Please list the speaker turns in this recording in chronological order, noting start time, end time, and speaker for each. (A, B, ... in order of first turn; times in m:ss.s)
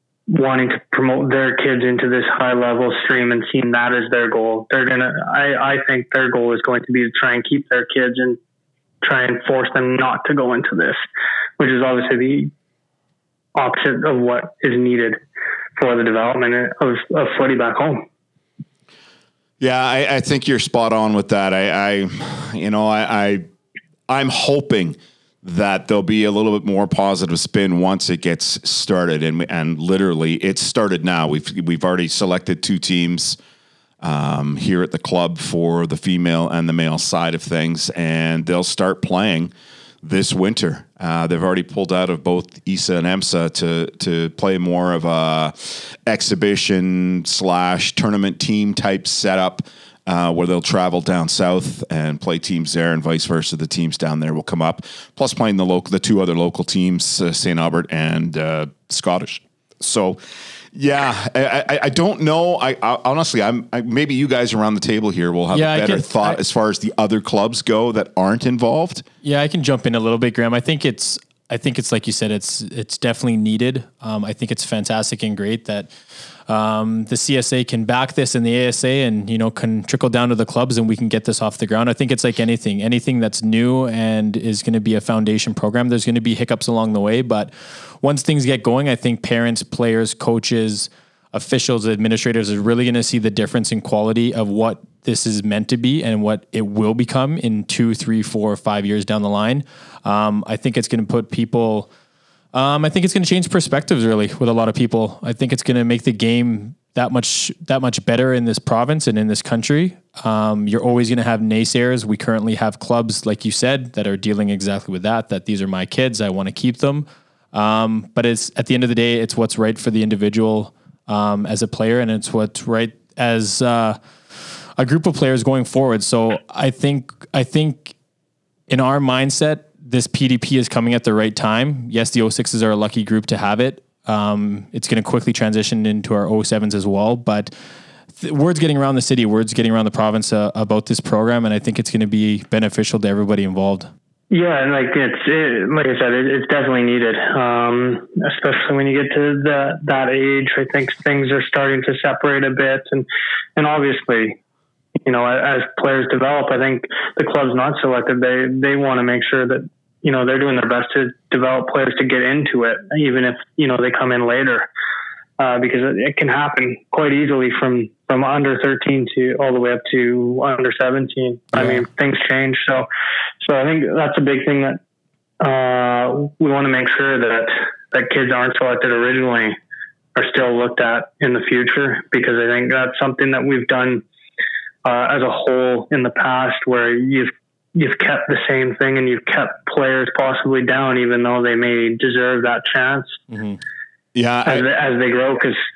0:00.3-0:08.4 A
0:09.0-0:11.0 A
0:11.6-0:12.5 A
0:13.5-0:15.2 A
0:15.8-0:18.0 A
0:19.6-0:23.4 B
0:24.1-0:33.4 B
0:34.0-0:39.5 B
0:40.0-1:00.2 B
1:00.7-1:09.0 B
1:05.5-1:06.4 C
1:09.2-1:15.9 C
1:16.5-1:41.9 C
1:42.5-2:04.0 C
2:04.8-2:07.9 C
2:08.7-2:17.5 C
2:18.2-2:23.9 C
2:24.3-2:34.4 A
2:35.0-2:44.7 A
2:45.4-2:52.9 A
2:51.6-2:51.8 C
2:53.4-2:54.8 A
2:55.4-2:59.6 A
3:00.2-3:04.0 A
3:04.8-3:13.2 A
3:13.3-3:13.6 C
3:14.1-3:14.7 B
3:14.4-3:15.6 A